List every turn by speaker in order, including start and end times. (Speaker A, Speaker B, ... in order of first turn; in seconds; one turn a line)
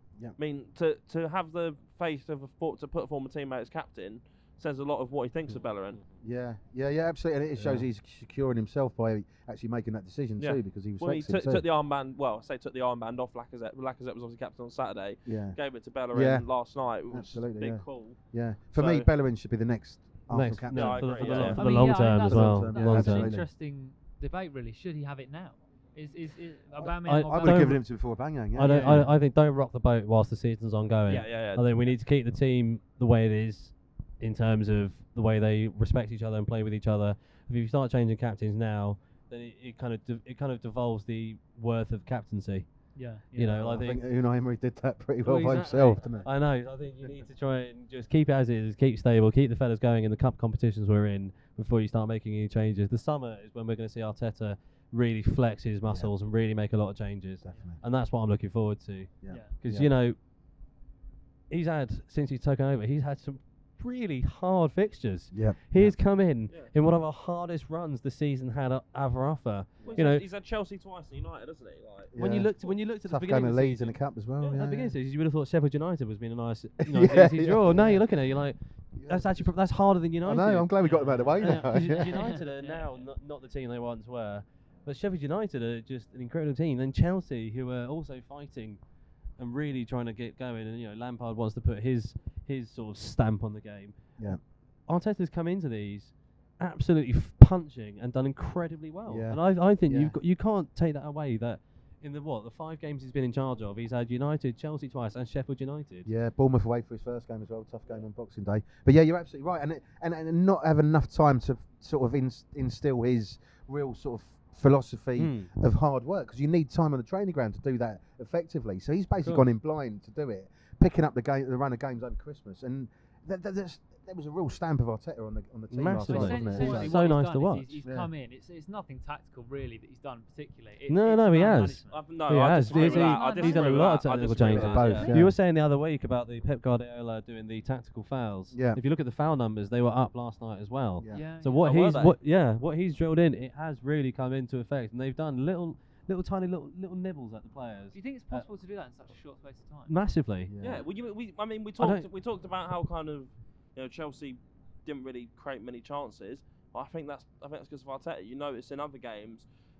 Speaker A: 0.4-6.0
Speaker B: 6.2-11.6
Speaker C: 7.6-7.8
Speaker A: 10.4-18.2
Speaker B: 15.2-15.6
Speaker B: 16.1-16.5
Speaker B: 17.1-23.5
Speaker A: 18.7-19.1
Speaker C: 20.3-23.3
Speaker A: 20.7-21.6
Speaker D: 21.5-27.8
Speaker B: 26.8-29.1
Speaker C: 27.1-27.8
Speaker C: 28.5-42.7
Speaker D: 28.6-28.9
Speaker A: 31.1-31.6
Speaker D: 42.9-43.7
Speaker C: 43.3-44.0
Speaker B: 43.5-46.3
Speaker C: 45.2-60.2
Speaker B: 57.4-57.8
Speaker B: 59.2-59.9
Speaker C: 61.5-70.2
Speaker B: 65.3-66.0
Speaker A: 69.8-72.1
Speaker B: 72.1-74.9
Speaker C: 72.2-74.0
Speaker C: 74.5-80.7
Speaker B: 76.9-78.1
Speaker B: 79.0-79.5
Speaker B: 80.2-82.4
Speaker D: 80.8-81.3
Speaker C: 81.3-88.8
Speaker D: 82.1-83.0
Speaker C: 89.4-94.1
Speaker C: 94.9-106.1
Speaker B: 99.0-100.2
Speaker B: 106.0-127.0
Speaker C: 115.2-115.5
Speaker C: 119.2-119.5
Speaker C: 125.7-127.8
Speaker D: 126.0-132.0
Speaker B: 127.8-128.1
Speaker C: 130.9-148.4
Speaker A: 131.4-135.1
Speaker D: 132.7-133.9
Speaker B: 134.4-135.4
Speaker D: 134.7-135.2
Speaker B: 138.5-138.8
Speaker B: 141.0-141.2
Speaker D: 141.1-141.8
Speaker A: 141.6-142.2
Speaker D: 147.9-149.9
Speaker C: 149.9-150.5
Speaker B: 150.4-150.8
Speaker A: 150.6-159.4
Speaker C: 151.8-152.1